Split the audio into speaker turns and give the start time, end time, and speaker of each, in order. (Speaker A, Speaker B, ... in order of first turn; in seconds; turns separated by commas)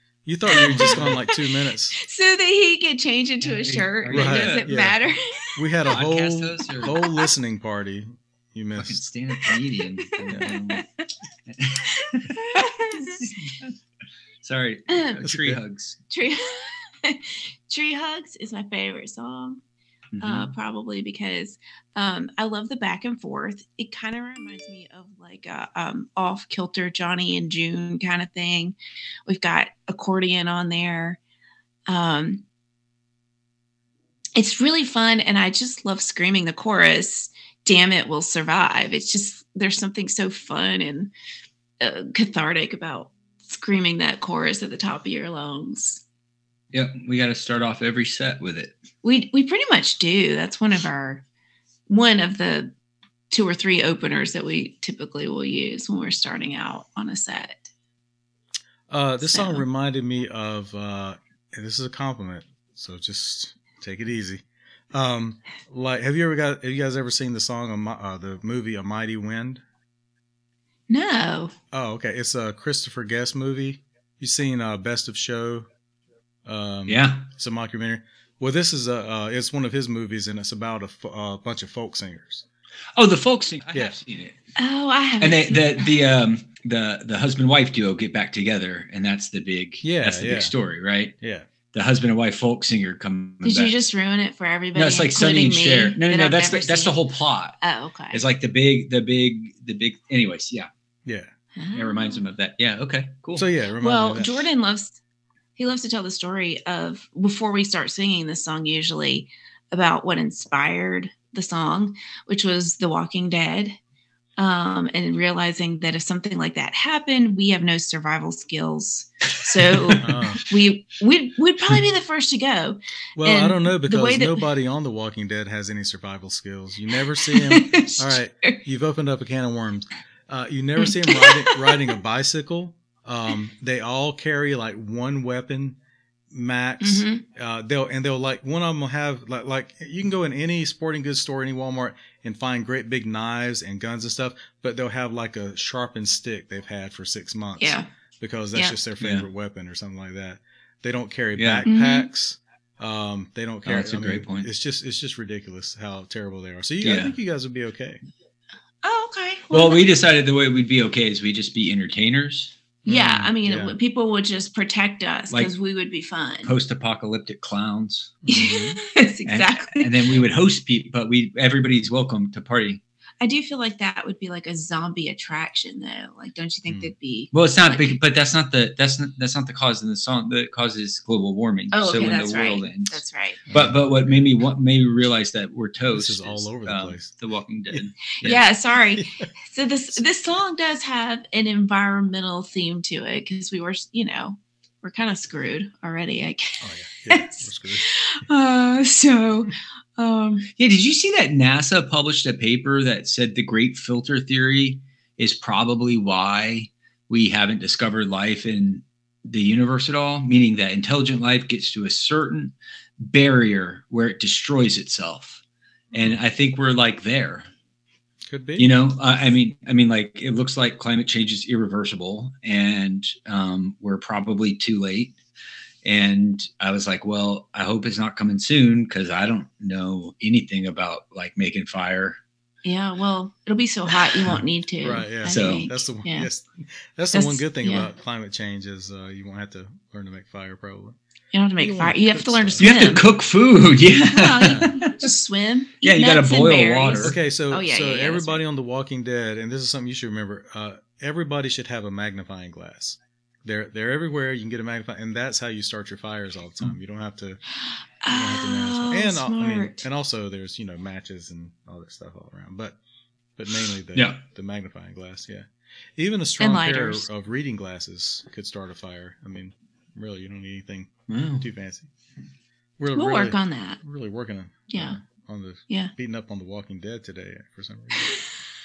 Speaker A: 0.2-1.9, Speaker B: 0.5-1.4, Speaker C: 0.6-1.0, Speaker B: 2.0-5.5, Speaker C: 3.4-4.7, Speaker A: 4.1-5.0, Speaker A: 5.6-9.1, Speaker C: 5.9-7.0, Speaker B: 6.8-7.2, Speaker C: 8.8-10.8, Speaker B: 10.2-10.8, Speaker A: 10.3-10.6, Speaker C: 11.5-12.4, Speaker B: 12.3-13.1, Speaker C: 12.9-13.8, Speaker C: 14.4-16.0, Speaker A: 15.2-15.6, Speaker B: 16.1-19.6, Speaker C: 20.1-20.5, Speaker B: 20.2-31.2, Speaker B: 31.9-32.4, Speaker B: 34.4-41.1, Speaker B: 41.8-46.0, Speaker C: 46.7-48.7, Speaker B: 49.0-51.2, Speaker B: 51.9-52.7, Speaker B: 53.3-57.7, Speaker A: 58.9-69.6, Speaker B: 59.2-59.6, Speaker B: 70.9-71.5, Speaker A: 71.7-75.7, Speaker A: 76.4-82.4, Speaker C: 76.9-77.3, Speaker C: 83.0-84.4, Speaker B: 84.6-85.9, Speaker C: 85.2-91.2, Speaker A: 89.8-90.5, Speaker A: 91.2-91.5, Speaker C: 91.7-93.7, Speaker B: 93.4-97.0, Speaker C: 94.8-100.7, Speaker B: 97.6-98.2, Speaker A: 101.0-101.3, Speaker B: 101.6-102.2, Speaker C: 101.7-103.5, Speaker A: 103.3-104.5, Speaker B: 103.8-105.0, Speaker B: 105.6-113.8, Speaker B: 114.4-124.4, Speaker C: 119.7-120.0, Speaker A: 120.0-120.4, Speaker A: 123.2-135.8, Speaker B: 127.4-128.6, Speaker B: 130.8-131.8, Speaker A: 136.3-158.0, Speaker B: 136.8-137.2, Speaker B: 147.6-147.9, Speaker C: 149.0-149.3, Speaker C: 151.4-151.6, Speaker B: 151.6-152.1, Speaker C: 153.6-154.5, Speaker C: 156.8-157.2, Speaker B: 158.8-159.8, Speaker C: 159.5-162.6, Speaker B: 162.8-166.5, Speaker A: 162.9-163.8, Speaker C: 166.4-168.2, Speaker A: 168.2-168.8, Speaker B: 168.3-169.9, Speaker C: 169.2-172.8, Speaker B: 173.2-178.0, Speaker A: 176.7-176.9, Speaker C: 177.3-188.4, Speaker B: 181.7-183.4, Speaker A: 183.5-184.2, Speaker A: 185.9-187.1, Speaker B: 188.2-196.5, Speaker A: 196.6-197.9, Speaker B: 197.1-200.5, Speaker C: 200.6-215.4, Speaker C: 215.9-217.5, Speaker A: 218.3-218.7, Speaker C: 218.6-225.2, Speaker C: 225.8-232.2, Speaker B: 232.7-236.3, Speaker A: 234.8-241.0, Speaker C: 235.3-235.7, Speaker B: 237.1-237.9, Speaker B: 241.3-243.1, Speaker A: 241.6-242.6, Speaker C: 242.6-245.1, Speaker B: 244.1-248.4, Speaker A: 244.4-244.7, Speaker C: 245.8-247.2, Speaker A: 247.0-257.4, Speaker B: 258.0-259.8, Speaker A: 258.1-262.8, Speaker A: 263.4-271.9, Speaker C: 263.9-264.2, Speaker B: 266.4-267.1, Speaker C: 271.1-271.4, Speaker A: 272.8-278.1, Speaker B: 272.9-273.8, Speaker B: 274.7-275.0